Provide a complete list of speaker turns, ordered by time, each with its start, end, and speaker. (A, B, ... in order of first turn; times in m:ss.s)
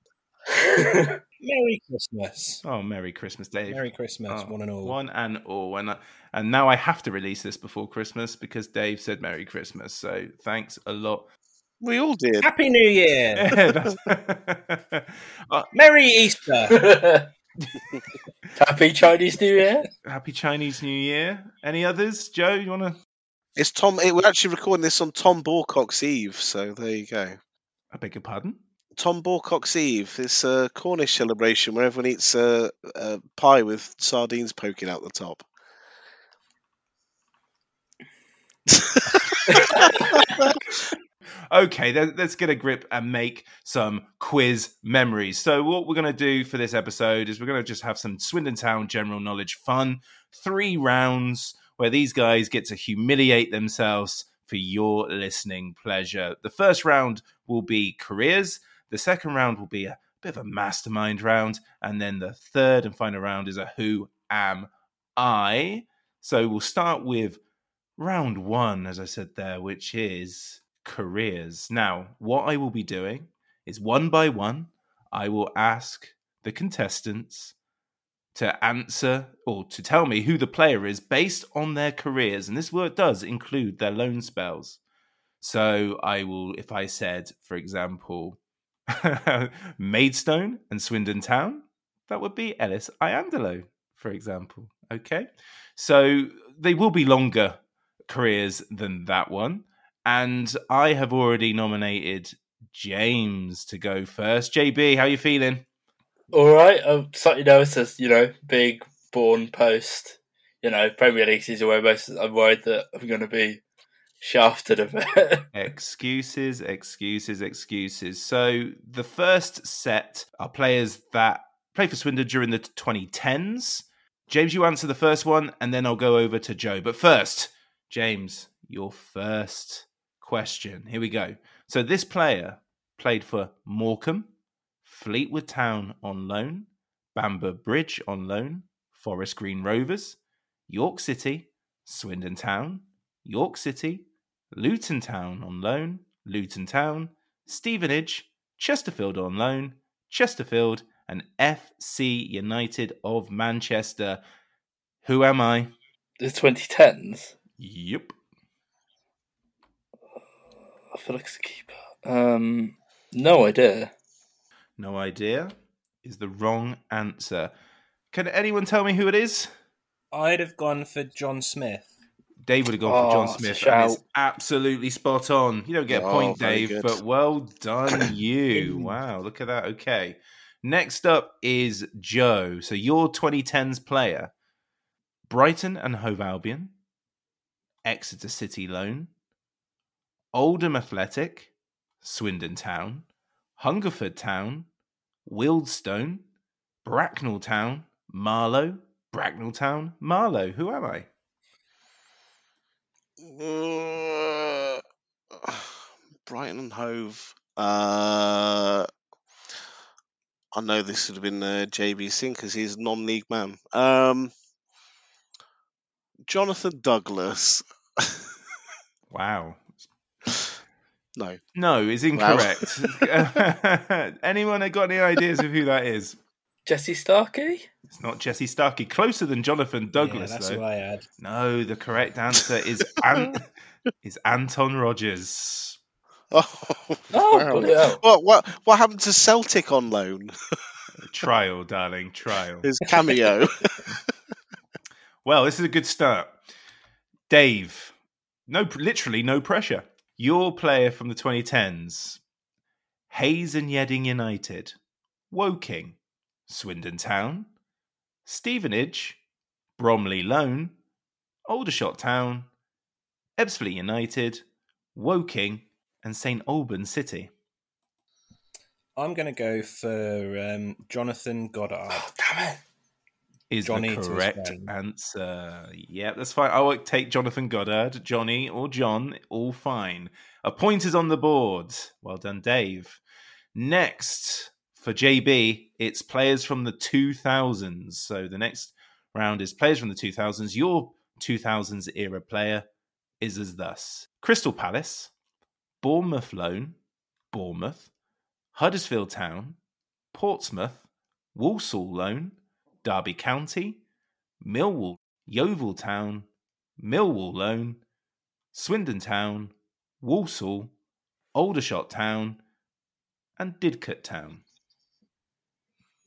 0:00.6-0:01.2 A
0:01.4-0:02.6 B
0:02.6-0:11.3 C
0:03.7-0:05.0 B
0:11.8-0:12.5 D
0:12.4-0:13.5 B
0:13.4-0:15.7 C
0:15.7-0:16.8 B
0:16.7-0:17.3 A
0:18.6-0:19.9 A
0:20.0-0:23.0 C
0:23.6-0:27.4 D
0:27.9-0:28.6 C
0:29.0-0:35.4 D
0:38.7-0:40.6 D
0:41.5-1:07.4 C
1:08.0-1:17.5 C
1:18.3-1:24.8 C
1:25.4-1:28.4 C
1:28.9-1:45.6 C
1:46.3-1:53.6 A
1:54.2-1:55.5 A
1:55.5-2:14.3 C
2:14.8-2:34.2 C
2:35.0-2:35.7 C
2:36.2-2:37.3 A
2:37.6-2:38.1 C
2:40.9-2:43.9 A
2:44.8-2:47.5 C
2:48.1-2:49.5 C
2:50.1-2:51.9 B
2:52.4-3:04.3 C
2:52.8-2:54.0 A
2:55.9-2:57.0 D
3:05.3-3:06.7 C
3:07.8-3:09.1 C
3:10.3-3:13.0 C
3:13.6-3:14.7 C
3:15.2-3:16.2 C
3:16.8-3:21.1 C
3:23.2-3:24.8 D
3:25.3-3:28.9 D
3:30.5-3:34.3 D
3:36.3-3:38.3 D
3:39.1-3:39.8 C
3:41.2-3:41.4 D
3:41.5-3:46.2 C
3:42.1-3:43.4 D
3:46.6-3:47.7 A
3:47.9-3:50.6 C
3:50.0-3:51.0 B
3:51.2-3:53.4 C
3:54.0-3:55.8 C
3:56.3-4:00.3 D
3:57.1-3:58.0 A
4:01.0-4:02.7 C
4:02.6-4:04.0 D
4:05.2-4:06.4 C
4:07.3-4:07.9 C
4:08.5-4:12.2 C
4:13.1-4:14.8 C
4:15.3-4:16.0 C
4:16.5-4:17.5 C
4:18.2-4:19.2 C
4:19.8-4:20.8 C
4:21.5-4:22.5 C
4:23.4-4:24.4 C
4:24.9-4:27.3 C
4:29.0-4:32.1 B
4:31.9-4:32.6 A
4:33.5-4:43.0 C
4:33.6-4:34.7 B
4:43.5-4:52.6 C
4:53.2-4:55.1 C
4:55.8-4:56.8 C
4:57.3-4:57.9 C
4:58.5-4:59.6 C
5:00.1-5:03.8 C
5:04.4-5:06.3 C
5:06.8-5:07.8 C
5:08.5-5:10.7 C
5:11.3-5:12.4 C
5:13.4-5:14.4 C